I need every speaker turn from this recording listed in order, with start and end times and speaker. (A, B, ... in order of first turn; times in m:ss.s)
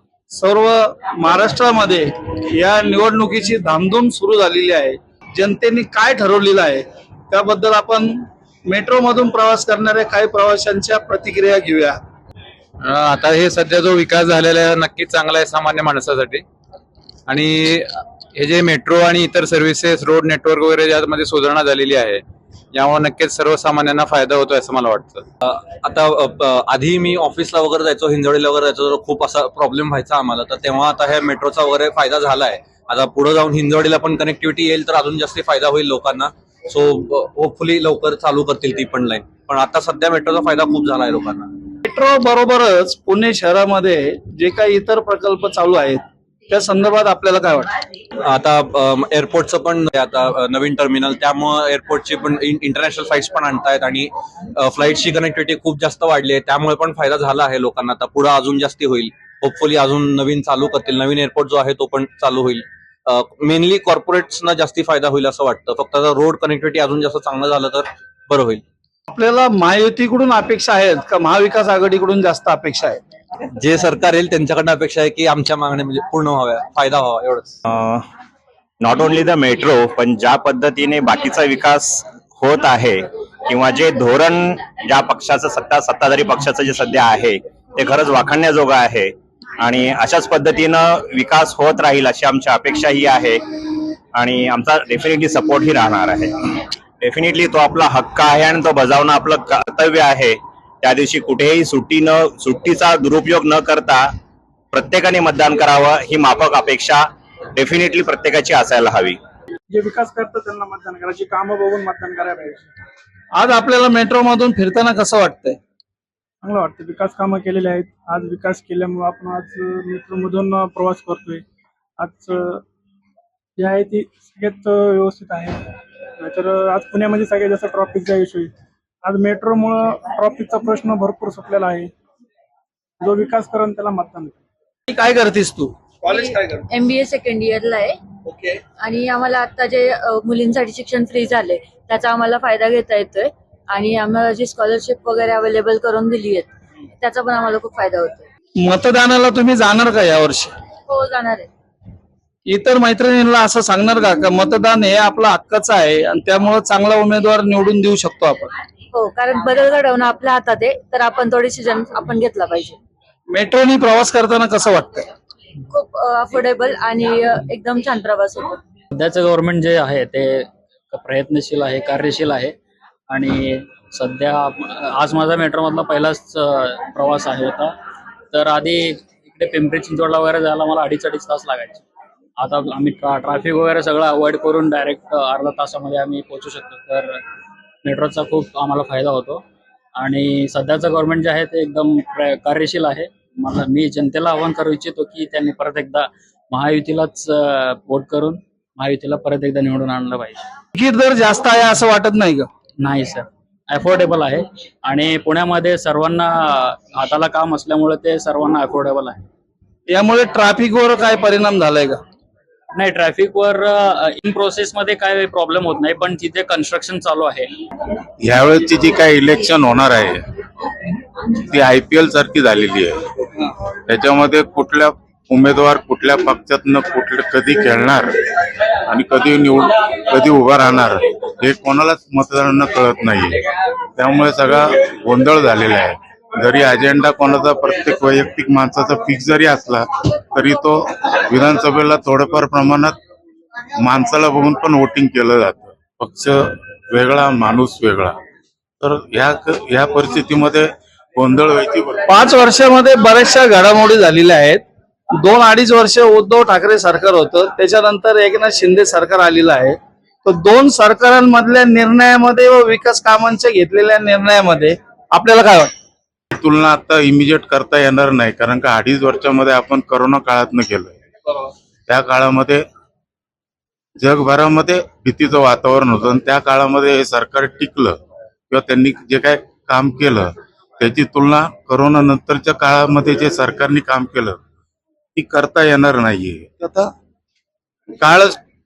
0:00.3-0:08.2 A
0:08.7-0:12.0 A
0:12.8-0:16.4 B
0:17.3-0:22.2 B
0:22.7-0:25.2 B
0:25.4-0:41.5 C
0:41.8-0:47.7 A
0:48.3-1:08.6 C
1:09.1-1:13.0 A
1:13.6-1:17.6 C
1:17.7-1:18.0 D
1:18.8-1:33.4 D
1:34.1-1:44.1 D
1:44.7-1:47.0 D
1:47.5-1:49.2 D
1:49.7-1:52.7 E
1:53.3-1:55.6 A
1:56.4-2:01.4 E
2:02.0-2:02.6 E
2:03.6-2:05.6 E
2:06.2-2:08.5 E
2:09.0-2:11.9 E
2:13.0-2:14.4 E
2:14.9-2:16.7 A
2:16.1-2:18.0 F
2:18.2-2:18.6 A
2:18.8-2:28.3 F
2:28.6-2:30.5 A
2:30.9-2:31.5 F
2:32.5-2:38.5 A
2:38.9-2:42.8 F
2:43.3-2:45.1 A
2:45.7-2:48.6 F
2:48.9-2:52.6 G
2:53.1-2:57.7 G
2:58.3-3:01.8 G
3:02.4-3:07.2 G
3:07.8-3:09.4 G
3:10.0-3:20.4 G
3:20.7-3:22.5 A
3:22.8-3:29.2 G
3:29.9-3:32.0 A
3:32.8-3:37.5 G
3:38.2-3:40.3 H
3:41.4-3:43.0 H
3:43.9-3:48.1 H
3:48.9-4:03.0 H
4:03.8-4:08.2 H
4:08.8-4:12.2 H
4:12.1-4:14.6 A
4:15.2-4:25.7 A
4:26.3-4:30.9 H
4:31.9-4:32.6 H
4:34.0-4:38.0 H
4:38.5-4:44.4 H
4:45.2-4:46.9 H
4:48.0-4:48.4 H